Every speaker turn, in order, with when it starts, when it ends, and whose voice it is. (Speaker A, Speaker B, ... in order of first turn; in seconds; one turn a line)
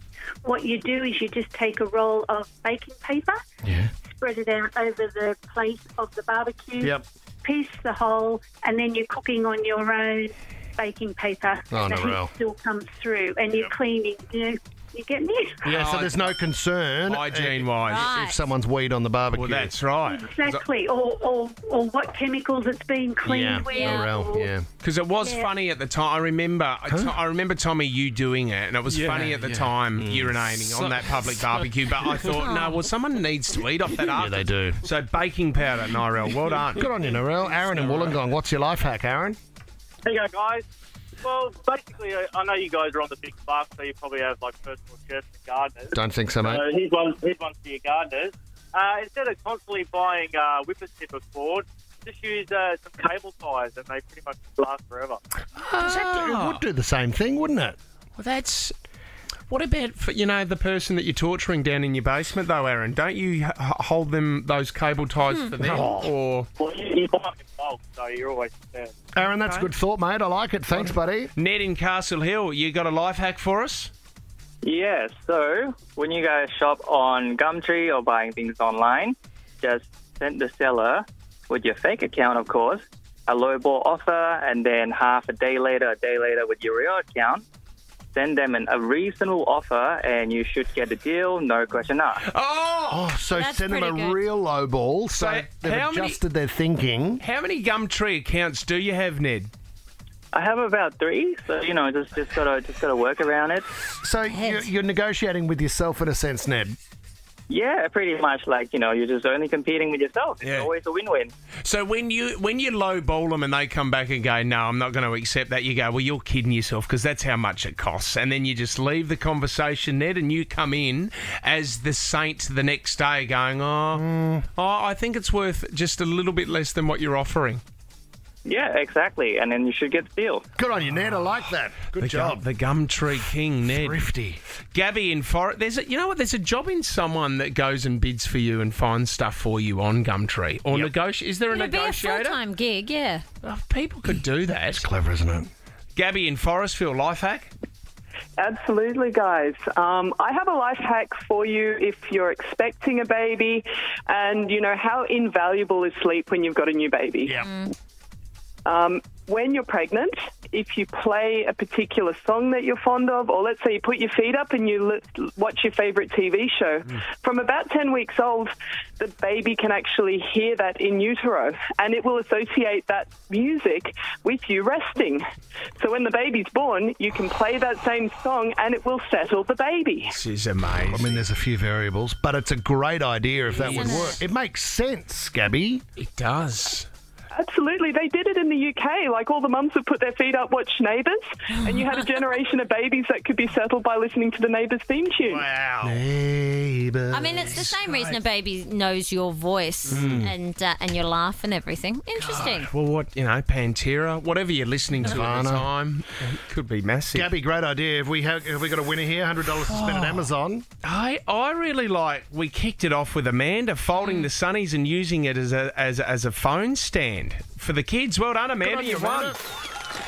Speaker A: 0.4-3.4
Speaker B: 3.6-3.9
Speaker A: 4.2-15.7
Speaker B: 11.7-12.3
Speaker B: 15.6-19.7
Speaker C: 15.7-16.3
Speaker C: 17.1-18.2
Speaker D: 17.9-18.2
Speaker C: 19.3-20.6
Speaker A: 20.0-24.5
Speaker B: 23.2-24.6
Speaker D: 23.7-24.0
Speaker C: 24.8-38.2
Speaker A: 25.2-25.5
Speaker B: 26.9-27.1
Speaker B: 28.9-31.5
Speaker B: 34.0-34.8
Speaker B: 36.8-39.4
Speaker E: 40.0-40.6
Speaker E: 41.2-55.2
Speaker B: 45.9-46.6
Speaker B: 55.6-57.8
Speaker C: 55.8-56.6
Speaker C: 58.2-58.7
Speaker C: 59.5-66.5
Speaker B: 65.6-66.1
Speaker E: 66.6-68.9
Speaker B: 69.1-71.3
Speaker C: 69.4-69.7
Speaker C: 70.7-73.9
Speaker F: 74.6-87.4
Speaker F: 88.1-92.2
Speaker C: 92.2-93.2
Speaker B: 92.9-97.2
Speaker D: 93.3-94.2
Speaker C: 95.1-96.2
Speaker C: 97.2-99.5
Speaker F: 100.3-103.7
Speaker B: 104.0-106.8
Speaker D: 104.3-104.6
Speaker F: 107.5-111.3
Speaker C: 110.4-110.7
Speaker C: 111.6-127.6
Speaker B: 123.9-124.5
Speaker F: 128.4-130.4
Speaker B: 130.6-132.4
Speaker C: 132.0-134.1
Speaker B: 133.6-134.4
Speaker C: 134.7-142.4
Speaker D: 141.5-143.2
Speaker C: 143.4-144.8
Speaker B: 144.7-145.5
Speaker C: 145.9-147.5
Speaker G: 148.4-157.4
Speaker D: 157.4-157.7
Speaker G: 158.6-175.2
Speaker G: 175.8-180.1
Speaker C: 180.0-181.2
Speaker B: 180.9-185.8
Speaker C: 183.5-184.2
Speaker D: 183.7-184.2
Speaker C: 186.0-186.9
Speaker G: 187.3-195.4
Speaker C: 195.2-196.0
Speaker B: 195.8-197.5
Speaker D: 197.1-202.7
Speaker C: 197.3-198.2
Speaker C: 199.8-200.2
Speaker B: 199.9-200.3
Speaker C: 202.1-207.3
Speaker B: 205.0-205.7
Speaker B: 207.1-210.6
Speaker C: 209.7-210.3
Speaker C: 210.8-219.4
Speaker B: 218.6-219.4